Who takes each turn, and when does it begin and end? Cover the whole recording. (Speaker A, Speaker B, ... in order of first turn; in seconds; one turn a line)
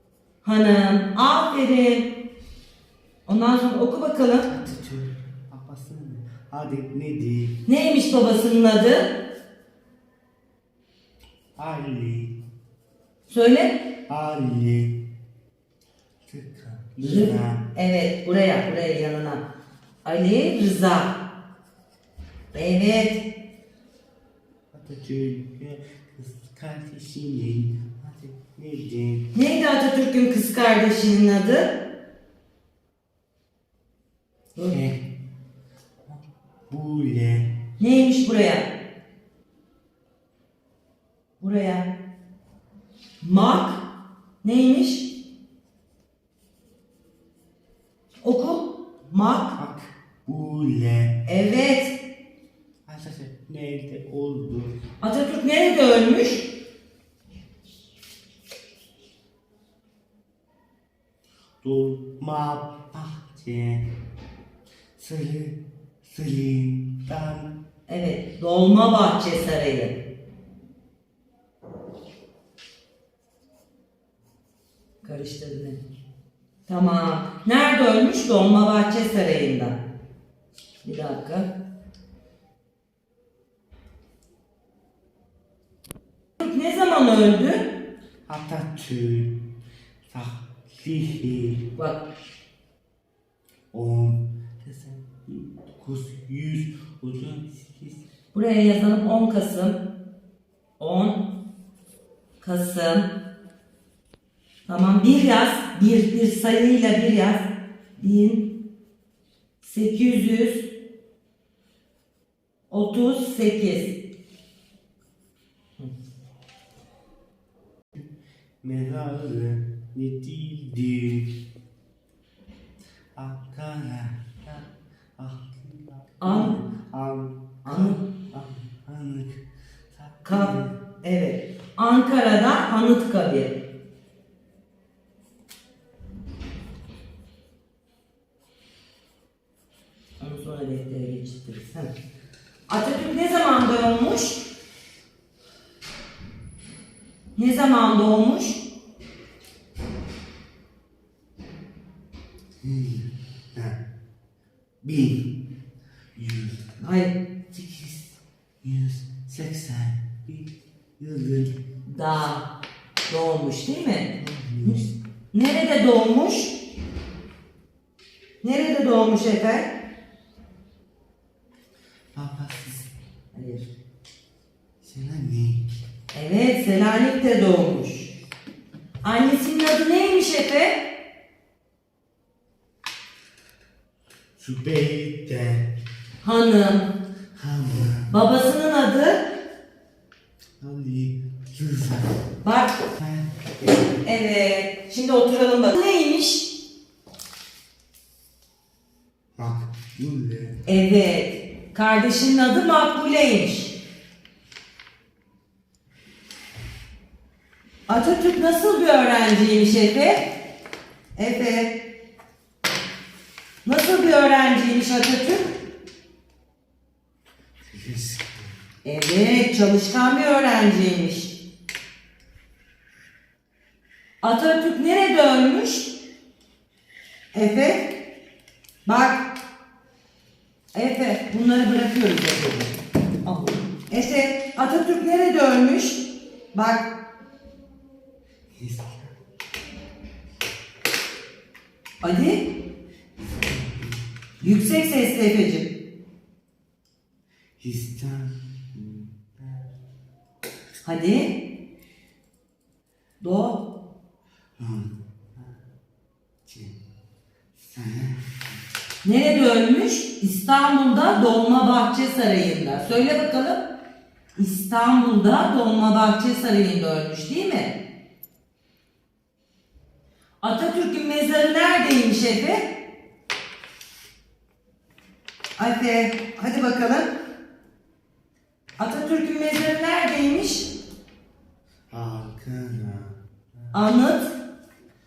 Speaker A: 0.4-2.1
Speaker A: 3.3-4.5
Speaker B: 4.5-7.6
Speaker A: 7.7-9.1
Speaker B: 11.6-12.3
Speaker A: 13.3-13.8
Speaker B: 14.1-15.0
Speaker B: 16.2-17.6
Speaker A: 17.0-19.4
Speaker A: 20.1-21.1
Speaker A: 22.5-23.2
Speaker B: 24.7-29.3
Speaker A: 29.3-31.7
Speaker B: 34.7-35.0
Speaker B: 36.1-37.5
Speaker A: 37.8-38.7
Speaker A: 41.4-41.9
Speaker A: 43.2-43.8
Speaker A: 44.4-45.1
Speaker A: 48.2-49.5
Speaker B: 49.6-51.2
Speaker A: 51.3-52.0
Speaker B: 52.9-54.8
Speaker A: 55.0-56.5
Speaker B: 61.6-63.9
Speaker B: 65.0-67.5
Speaker A: 67.9-70.0
Speaker A: 75.0-75.8
Speaker A: 76.7-79.8
Speaker A: 80.8-81.5
Speaker A: 86.4-87.7
Speaker B: 88.3-89.3
Speaker B: 90.1-91.6
Speaker A: 91.8-92.0
Speaker B: 93.7-98.0
Speaker A: 98.3-99.8
Speaker A: 100.8-101.2
Speaker A: 102.4-103.1
Speaker A: 104.7-108.5
Speaker A: 109.6-110.7
Speaker A: 112.7-114.0
Speaker B: 118.6-121.3
Speaker B: 123.2-129.4
Speaker A: 126.2-126.5
Speaker A: 127.7-128.0
Speaker B: 129.9-130.8
Speaker A: 130.3-133.5
Speaker A: 140.2-141.9
Speaker A: 142.7-144.4
Speaker A: 147.4-148.6
Speaker B: 152.6-153.8
Speaker B: 154.8-155.3
Speaker B: 156.2-156.8
Speaker A: 156.8-157.2
Speaker B: 157.5-161.6
Speaker A: 161.9-162.5
Speaker A: 163.1-164.1
Speaker B: 164.1-164.9
Speaker A: 165.3-166.6
Speaker A: 168.4-169.7
Speaker B: 172.1-172.9
Speaker A: 173.3-173.7
Speaker B: 174.8-175.7
Speaker A: 176.1-178.1
Speaker A: 179.0-180.8
Speaker B: 184.4-185.7
Speaker A: 186.2-186.9
Speaker B: 187.3-188.1
Speaker A: 188.1-189.2
Speaker B: 190.6-192.2
Speaker A: 192.4-192.7
Speaker B: 193.0-193.5
Speaker A: 194.0-196.5
Speaker B: 199.4-200.6
Speaker A: 200.7-203.8
Speaker A: 207.9-210.3
Speaker A: 211.2-211.7
Speaker A: 213.6-215.5
Speaker B: 217.6-218.6
Speaker A: 218.8-221.3
Speaker A: 224.2-225.9
Speaker A: 227.3-227.9
Speaker A: 228.8-229.2
Speaker A: 230.7-236.8
Speaker B: 238.6-239.2
Speaker A: 242.0-242.5
Speaker B: 243.2-244.8
Speaker A: 244.4-245.7
Speaker B: 247.6-249.7
Speaker A: 250.8-251.4
Speaker A: 253.2-253.6
Speaker B: 254.6-255.6
Speaker B: 256.5-256.8
Speaker B: 257.6-258.6
Speaker A: 259.0-263.7
Speaker A: 264.4-267.7
Speaker A: 270.4-272.7
Speaker A: 275.6-277.1
Speaker A: 278.8-280.7
Speaker B: 281.9-283.8
Speaker A: 283.7-284.3